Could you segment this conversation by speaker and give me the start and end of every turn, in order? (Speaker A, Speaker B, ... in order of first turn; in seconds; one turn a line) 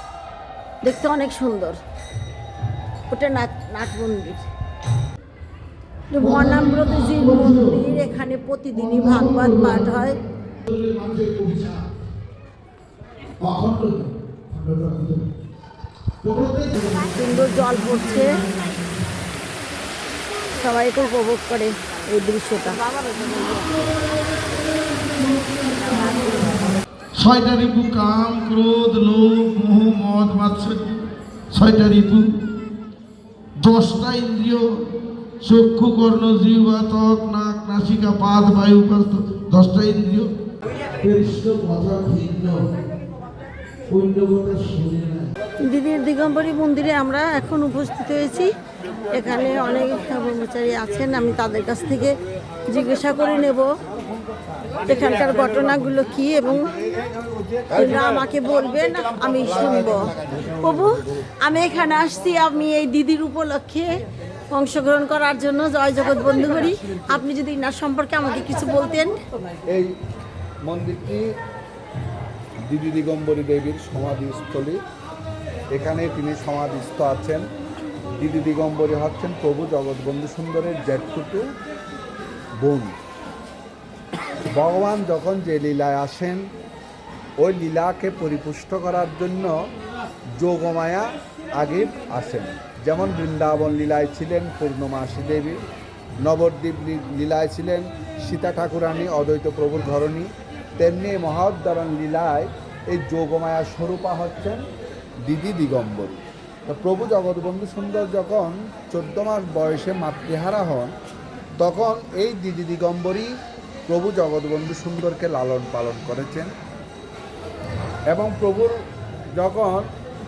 Speaker A: 0.8-1.8
Speaker A: 3.1-4.5
Speaker A: 6.1-10.2
Speaker B: 6.4-7.5
Speaker B: 10.7-11.8
Speaker B: 13.4-15.3
Speaker B: 16.2-17.0
Speaker A: 16.9-18.4
Speaker A: 20.6-23.9
Speaker A: 25.6-26.8
Speaker B: 27.1-31.0
Speaker B: 31.5-32.4
Speaker B: 33.6-34.9
Speaker B: 35.4-40.3
Speaker B: 41.0-42.7
Speaker B: 43.9-45.3
Speaker A: 45.6-48.5
Speaker A: 49.1-52.2
Speaker A: 52.7-53.8
Speaker A: 54.9-56.7
Speaker A: 57.7-69.2
Speaker C: 69.7-69.9
Speaker C: 70.7-71.3
Speaker C: 72.7-74.8
Speaker C: 75.7-77.5
Speaker C: 78.2-81.5
Speaker C: 82.6-83.0
Speaker C: 84.5-86.5
Speaker C: 87.4-89.7
Speaker C: 90.4-95.6
Speaker C: 96.2-104.7
Speaker C: 105.3-110.9
Speaker C: 111.6-113.3
Speaker C: 113.9-116.5
Speaker C: 118.1-118.8
Speaker C: 119.4-119.9